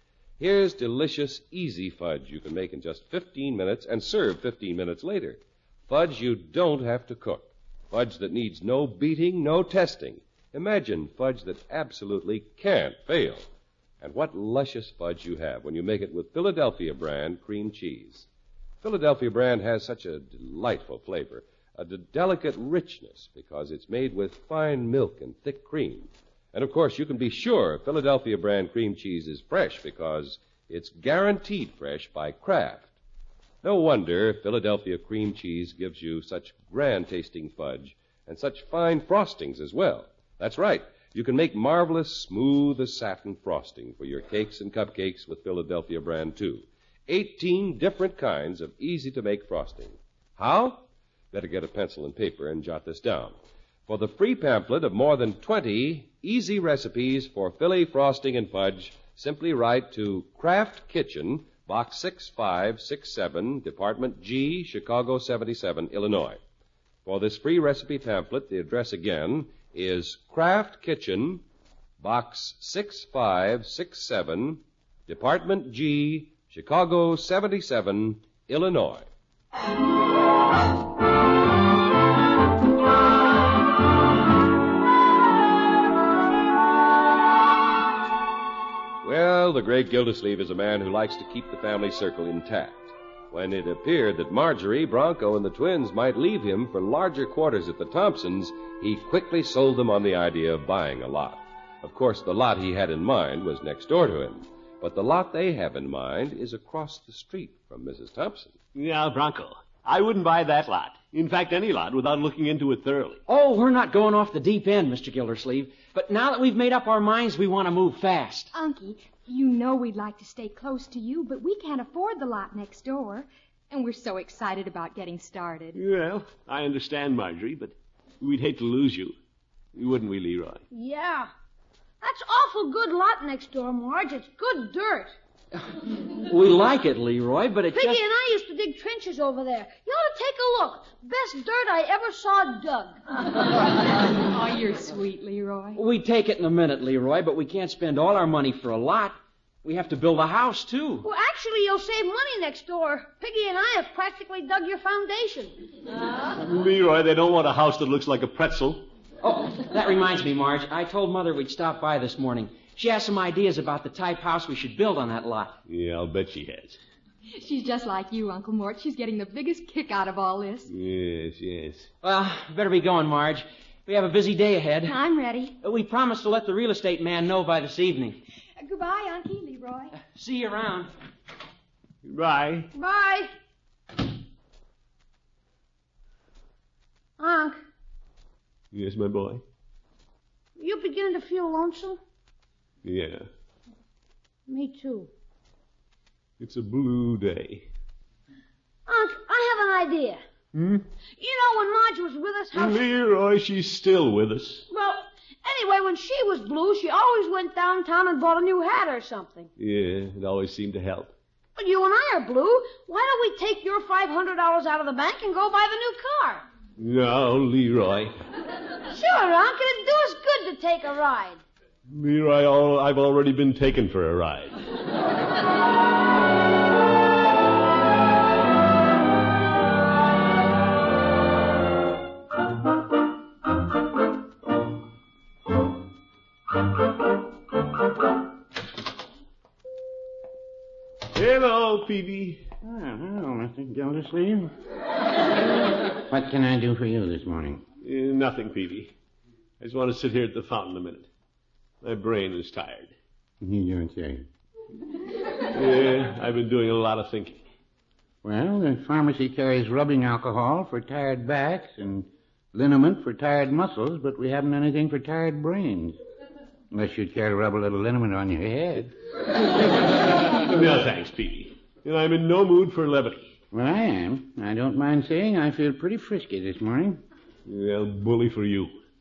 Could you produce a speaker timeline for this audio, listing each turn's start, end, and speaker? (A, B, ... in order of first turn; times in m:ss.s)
0:00.4-0:13.4 A
0:14.0-0:18.3 A
0:18.8-0:32.9 A
0:33.6-0:53.4 A
0:53.9-1:06.4 A
1:07.0-1:11.4 A
1:12.0-1:19.1 A
1:29.0-1:48.5 A
1:48.7-1:53.2 B
1:53.3-1:58.5 C
1:58.5-2:05.8 D
2:05.7-2:09.1 B
2:09.7-2:10.6 B
2:10.7-2:11.3 E
2:12.0-2:15.2 E
2:15.6-2:18.0 C
2:17.7-2:23.0 E
2:24.3-2:25.8 D
2:25.8-2:31.1 C
2:31.0-2:35.5 E
2:36.4-2:38.9 B
2:39.2-2:45.5 C
2:45.7-2:46.8 B
2:47.3-2:50.7 D
2:50.7-2:51.9 B
2:52.0-2:55.0 C
2:54.8-2:55.5 D
2:55.6-2:58.2 C
2:58.6-3:00.0 D
3:00.0-3:00.9 C
3:02.0-3:02.7 B
3:02.7-3:03.3 E
3:07.2-3:07.6 E
3:08.7-3:09.4 B
3:10.6-3:12.0 E
3:12.8-3:13.2 B
3:14.5-3:15.1 E
3:16.4-3:17.7 B
3:18.9-3:20.2 E
3:20.5-3:20.8 B
3:21.2-3:22.8 E
3:22.5-3:24.6 B
3:24.7-3:29.5 E
3:29.6-3:31.1 B
3:31.6-3:36.4 E
3:36.8-3:38.2 B
3:38.9-3:41.4 E
3:41.9-3:44.6 B
4:01.1-4:02.4 B
4:02.6-4:04.5 F
4:06.1-4:07.6 F
4:07.8-4:08.9 B
4:09.6-4:11.1 B
4:11.8-4:12.9 B
4:13.4-4:14.3 F
4:15.5-4:17.4 B
4:18.2-4:26.0 F
4:26.7-4:28.9 F
4:30.5-4:33.3 B
4:33.5-4:37.0 F
4:37.4-4:38.8 B